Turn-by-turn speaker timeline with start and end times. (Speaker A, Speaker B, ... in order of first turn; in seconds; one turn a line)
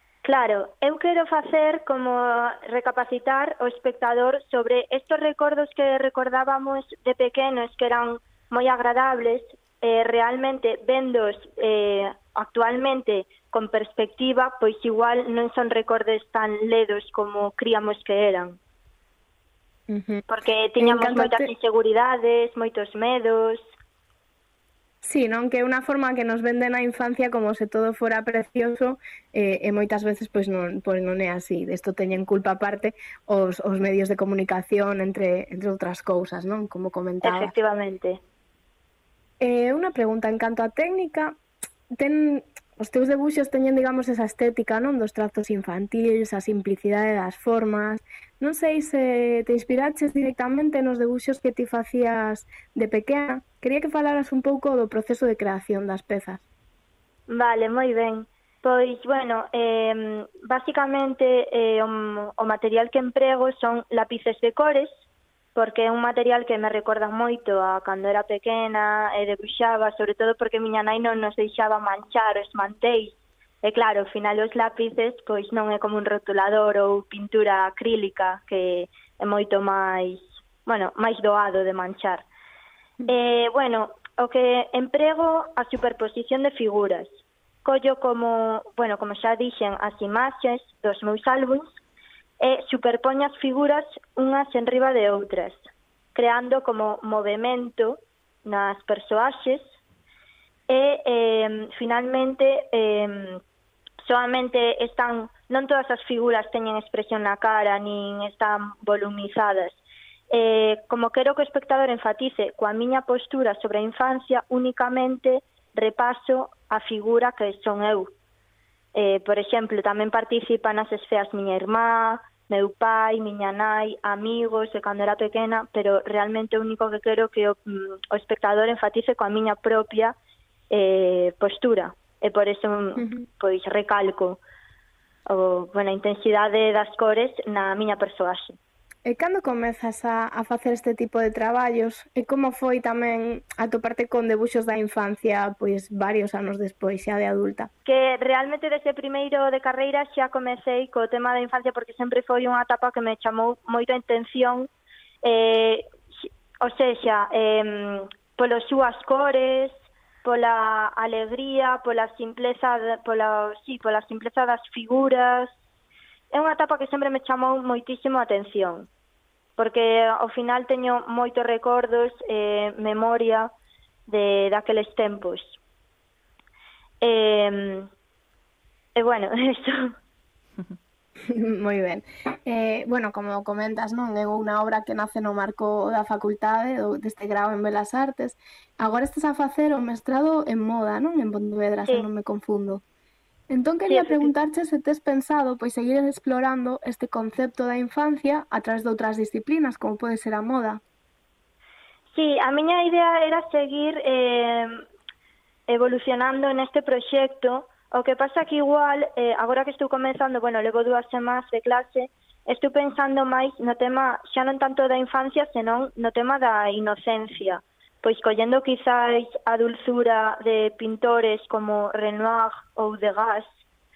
Speaker A: 0.2-18.6
Speaker B: 19.9-20.2
Speaker A: 20.3-23.6
Speaker B: 20.8-21.5
Speaker B: 25.0-37.5
Speaker A: 37.2-38.2
Speaker B: 39.4-41.4
Speaker B: 42.0-56.4
Speaker A: 57.3-64.9
Speaker A: 65.5-82.2
Speaker A: 83.0-87.1
Speaker A: 87.6-91.7
Speaker A: 92.4-95.6
Speaker A: 96.1-99.6
Speaker A: 100.7-103.4
Speaker A: 104.0-109.8
Speaker A: 110.3-118.1
Speaker A: 118.9-130.2
Speaker A: 130.7-134.4
Speaker B: 133.0-133.2
Speaker A: 135.3-138.6
Speaker B: 139.1-147.7
Speaker A: 147.8-154.7
Speaker A: 155.2-155.9
Speaker A: 156.6-165.5
Speaker A: 166.3-168.9
Speaker A: 169.6-173.5
Speaker A: 174.1-175.5
Speaker A: 177.0-177.9
Speaker A: 178.9-179.9
Speaker B: 181.3-192.8
Speaker B: 193.5-200.8
Speaker A: 193.9-194.3
Speaker A: 202.1-204.8
Speaker A: 205.7-223.5